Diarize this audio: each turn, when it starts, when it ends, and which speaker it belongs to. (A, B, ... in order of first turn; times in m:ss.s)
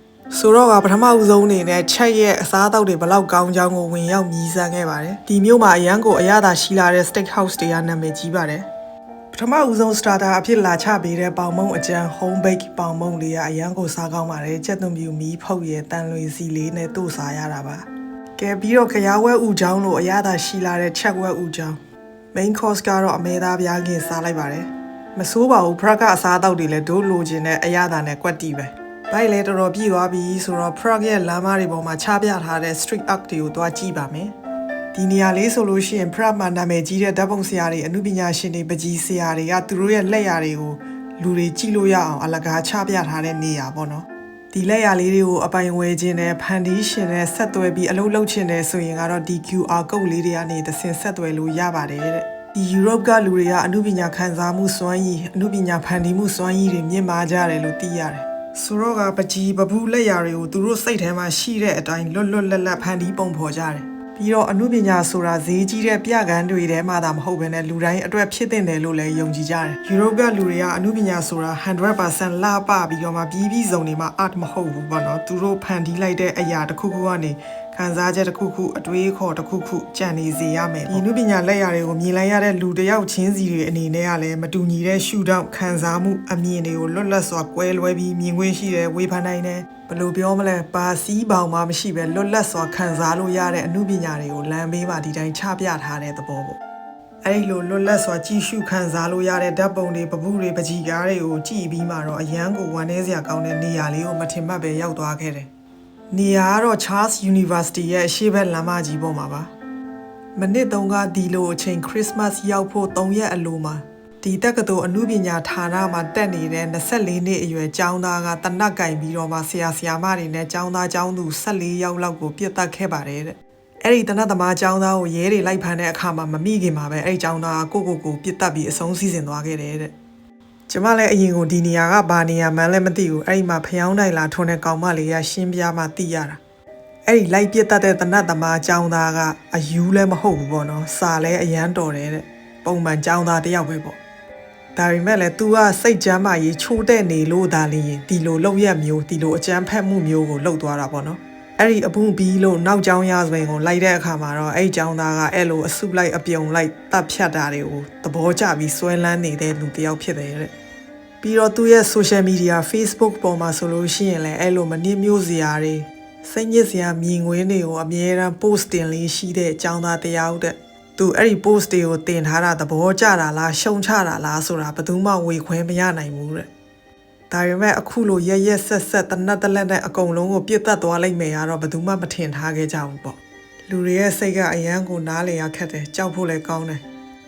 0:00.3-0:08.6 A
0:09.3-0:21.8 A
0:22.3-0:34.3 A
0:34.9-1:36.6 A
1:37.2-1:45.5 A
1:46.1-1:49.5 A
1:50.3-2:09.9 A
2:10.7-2:16.4 A
2:17.0-2:24.0 A
2:24.7-2:40.5 A
2:41.2-2:56.5 A
2:57.3-3:06.8 A